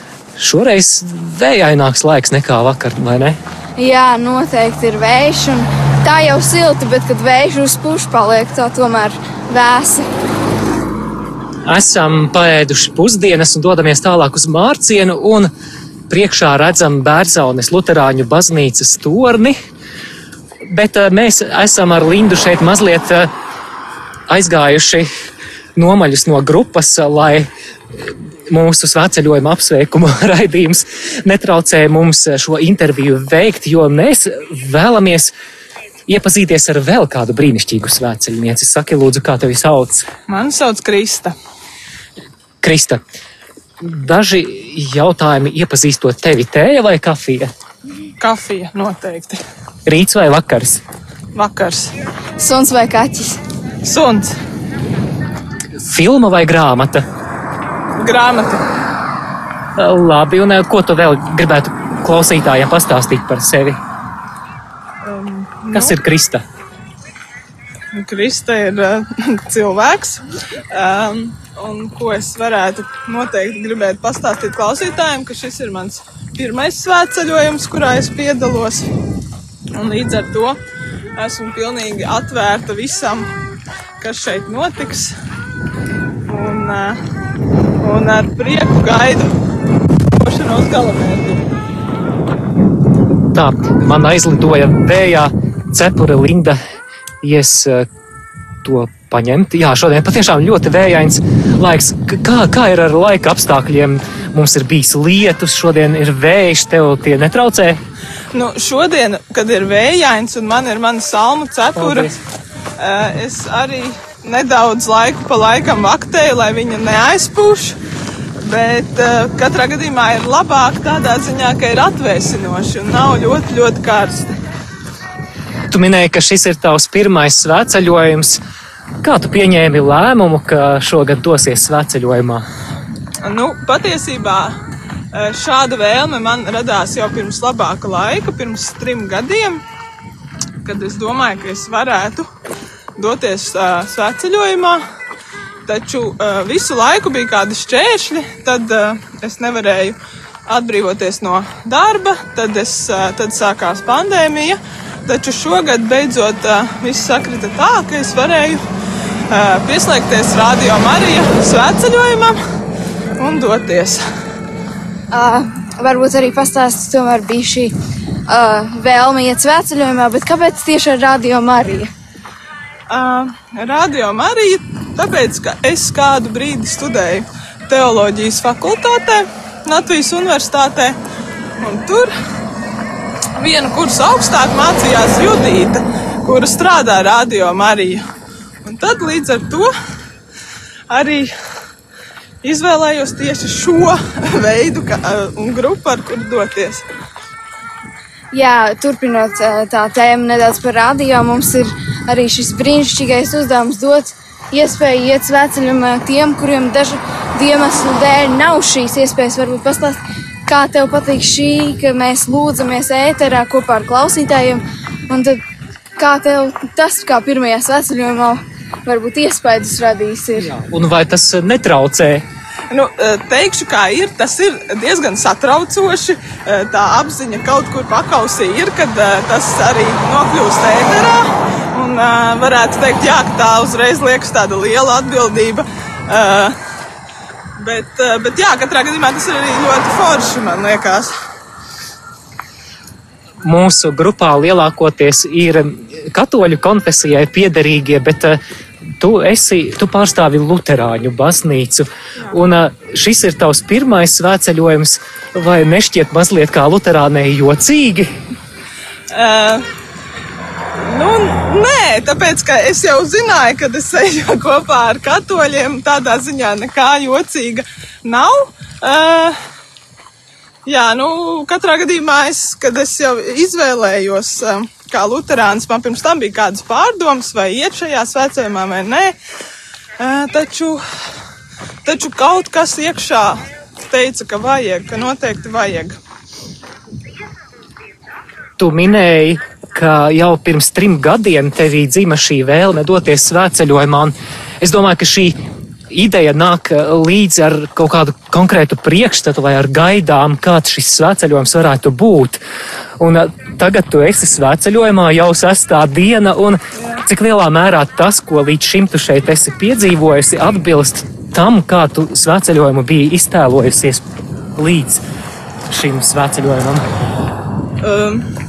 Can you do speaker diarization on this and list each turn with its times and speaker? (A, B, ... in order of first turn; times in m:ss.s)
0:00.4-0:03.4 A
0:03.8-0:10.1 B
0:11.7-0:15.5 A
0:16.1-0:19.6 A
0:20.6-0:23.3 A
0:24.3-0:25.1 A
0:25.8-0:35.3 A
0:36.1-0:40.1 A
0:40.3-0:41.3 C
0:42.6-0:43.0 A
0:43.8-0:47.5 A
0:48.2-0:49.4 C
0:49.9-0:50.8 A
0:51.4-0:51.9 C
0:52.4-0:53.4 B
0:53.8-0:54.3 C
0:55.8-0:57.0 A
0:58.0-0:58.6 C
0:59.8-1:03.8 A
1:05.0-1:06.0 C
1:05.7-1:06.4 A
1:07.9-1:18.9 C
1:19.8-1:20.6 C
1:21.2-1:23.3 C
1:24.0-1:25.1 C
1:26.3-1:27.0 C
1:27.8-1:29.3 C
1:30.2-1:31.4 C
1:33.3-1:36.6 A
1:37.2-1:37.9 A
1:38.6-1:47.8 A
1:48.3-1:52.1 C
1:51.8-1:52.1 A
1:52.8-1:57.8 C
1:58.4-2:04.3 C
2:05.7-2:08.4 A
2:09.0-2:12.5 A
2:13.2-2:14.5 C
2:15.1-2:19.6 C
2:20.6-2:22.2 C
2:23.0-2:24.8 C
2:25.7-2:38.6 C
2:39.3-2:42.4 C
2:43.2-2:44.0 C
2:45.1-2:47.8 B
2:48.3-2:51.9 B
2:52.9-3:01.0 C
3:01.6-3:02.1 C
3:03.4-3:08.0 C
3:08.6-3:09.7 C
3:10.9-3:11.3 C
3:12.4-3:16.8 C
3:18.3-3:35.4 B
3:36.0-3:40.5 B
3:40.4-3:42.2 A
3:42.7-3:56.6 C
3:57.6-4:01.1 C
4:03.4-4:08.4 A
4:09.0-4:18.1 A
4:19.1-4:19.6 C
4:20.8-4:29.4 C
4:30.7-4:39.2 C
4:40.0-4:40.8 C
4:41.8-4:46.0 C
4:48.6-4:55.4 A
4:55.9-5:02.4 A
5:03.0-5:14.0 A
5:14.6-5:15.0 A
5:15.7-5:16.8 A
5:17.8-5:18.2 C